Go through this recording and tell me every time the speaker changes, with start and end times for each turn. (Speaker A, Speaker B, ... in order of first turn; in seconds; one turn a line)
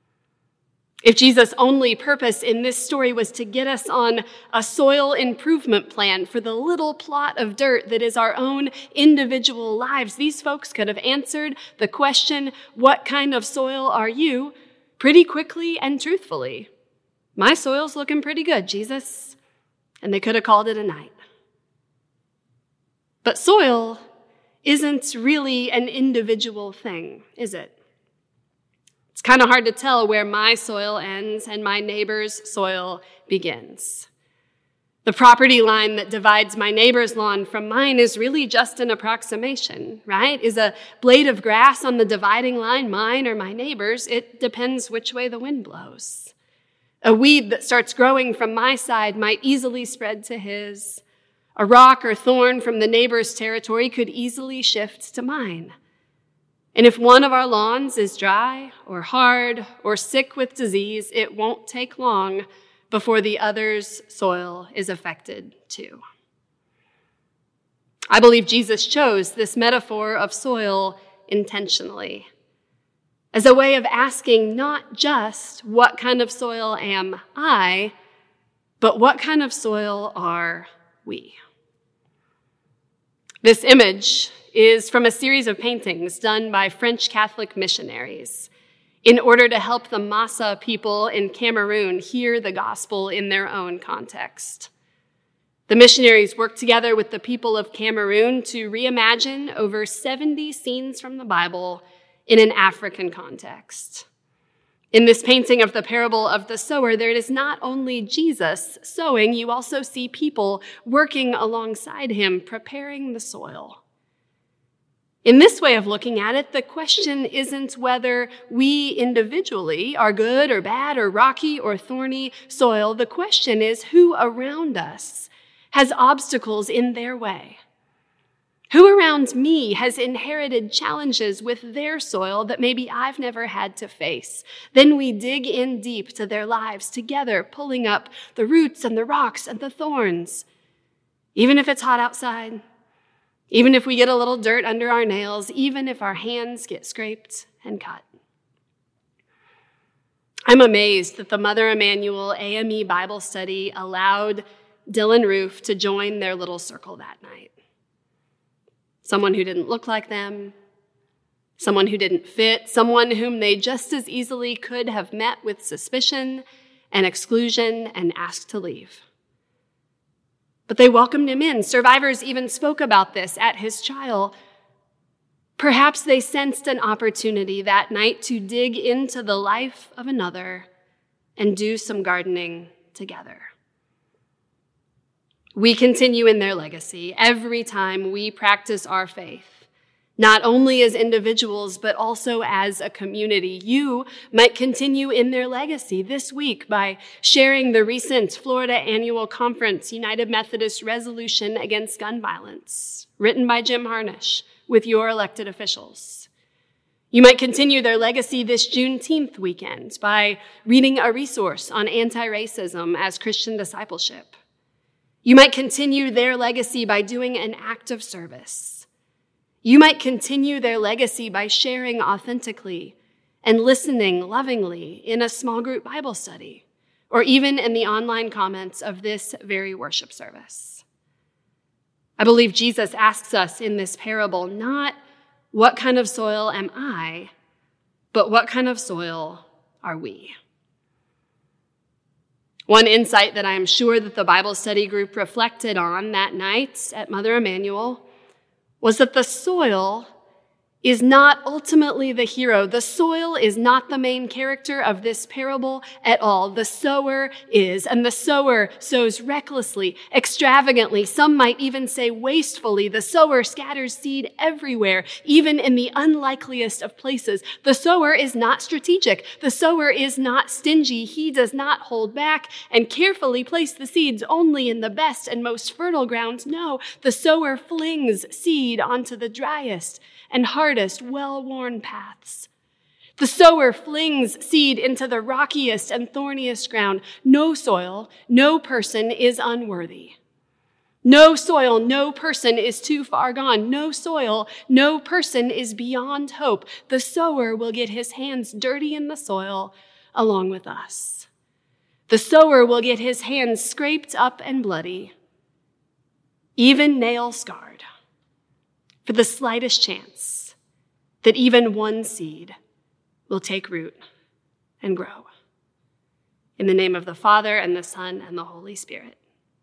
Speaker A: 1.0-16.7
Speaker A: 17.4-19.4
Speaker A: 20.0-21.1
Speaker A: 23.2-24.0
Speaker A: 24.6-27.8
Speaker A: 29.1-34.1
Speaker A: 35.0-46.3
Speaker A: 47.0-51.0
Speaker A: 51.6-55.7
Speaker A: 56.8-66.0
Speaker A: 68.1-72.3
Speaker A: 73.3-77.9
Speaker A: 78.8-81.4
Speaker A: 83.4-88.5
Speaker A: 89.0-94.7
Speaker A: 95.7-104.1
Speaker A: 104.9-113.8
Speaker A: 115.2-127.6
Speaker A: 128.7-140.5
Speaker A: 141.4-142.6
Speaker A: 143.5-148.1
Speaker A: 150.5-157.5
Speaker A: 159.0-160.6
Speaker A: 161.6-169.0
Speaker A: 170.7-174.3
Speaker A: 175.6-180.7
Speaker A: 181.4-183.5
Speaker A: 185.6-189.7
Speaker A: 190.2-206.3
Speaker A: 207.1-214.3
Speaker A: 215.2-218.9
Speaker A: 219.6-230.8
Speaker A: 232.2-235.0
Speaker A: 235.5-237.3
Speaker A: 238.1-240.3
Speaker A: 242.7-248.0
Speaker A: 248.8-250.1
Speaker A: 250.8-282.5
Speaker A: 283.2-290.2
Speaker A: 291.1-301.3
Speaker A: 302.1-305.1
Speaker A: 306.6-307.8
Speaker A: 309.1-310.6
Speaker A: 311.2-312.6
Speaker A: 313.3-314.0
Speaker A: 314.8-315.3
Speaker A: 316.6-319.2